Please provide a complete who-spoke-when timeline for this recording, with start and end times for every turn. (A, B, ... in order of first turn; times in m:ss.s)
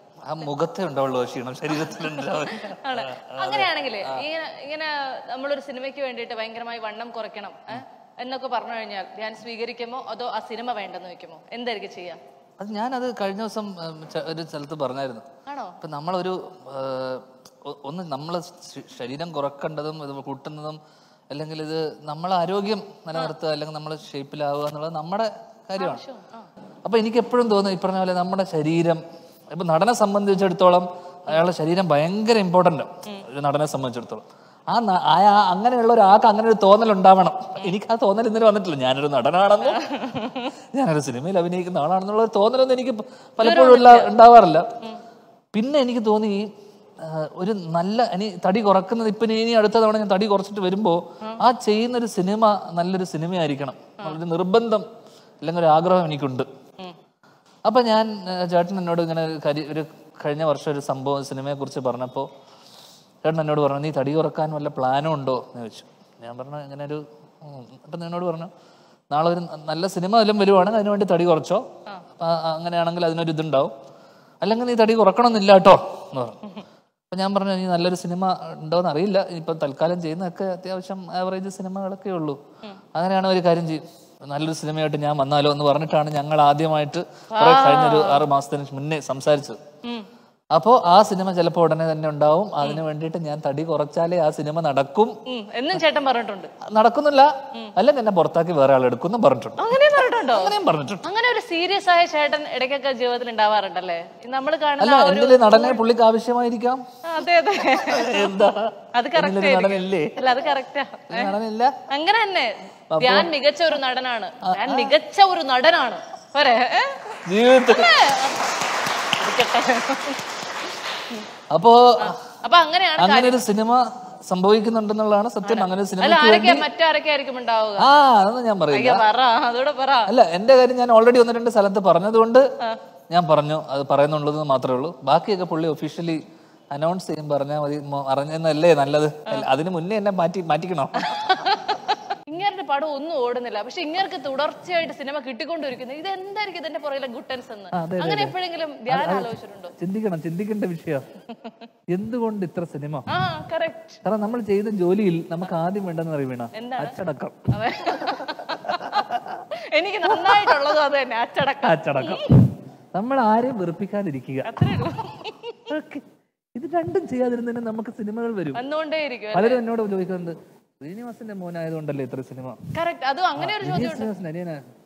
0:00.2-0:04.2 A
0:01.9-0:12.2 B
0:12.6-0:15.2 A
0:15.4-0:15.8 B
0:15.8-0:20.8 A
0:21.3-0:26.0 A
0:25.8-0:26.5 B
0:26.8-0:29.0 A
0:29.5-0:39.8 A
0:39.6-0:40.5 B
0:40.7-0:44.7 A
0:43.4-0:44.1 B
0:45.5-0:54.8 A
0:55.4-0:56.5 A
0:57.6-1:02.3 A
1:03.2-1:08.5 A
1:09.1-1:11.6 A
1:12.2-1:13.7 A
1:14.4-1:16.4 A
1:17.1-1:22.4 A
1:22.9-1:29.6 A
1:27.3-1:28.2 B
1:30.5-1:35.1 A
1:35.2-1:36.5 B
1:36.6-1:41.0 A
1:39.6-1:45.8 B
1:44.8-1:46.8 A
1:47.0-1:51.3 B
1:47.8-1:50.2 A
1:51.1-1:51.8 A
1:51.9-1:58.5 B
1:52.9-1:53.3 A
1:54.4-1:55.0 A
1:57.2-1:58.0 A
1:59.0-2:01.2 B
2:01.5-2:02.2 A
2:02.0-2:03.4 B
2:03.0-2:06.6 A
2:05.4-2:07.9 B
2:07.8-2:09.0 A
2:08.7-2:10.1 B
2:10.1-2:12.4 A
2:13.1-2:16.2 A
2:16.7-2:21.3 A
2:21.0-2:29.7 B
2:27.7-2:28.4 A
2:28.9-2:31.1 A
2:31.3-2:31.7 B
2:31.9-2:33.0 A
2:33.1-2:34.0 B
2:34.0-2:39.4 A
2:36.5-2:37.0 B
2:37.5-2:42.4 B
2:40.2-2:40.5 A
2:41.6-2:42.4 A
2:42.9-2:44.6 A
2:44.4-2:45.6 B
2:45.7-2:48.6 A
2:48.5-2:49.6 B
2:49.3-2:52.6 A
2:52.7-2:54.1 B
2:53.4-2:54.6 A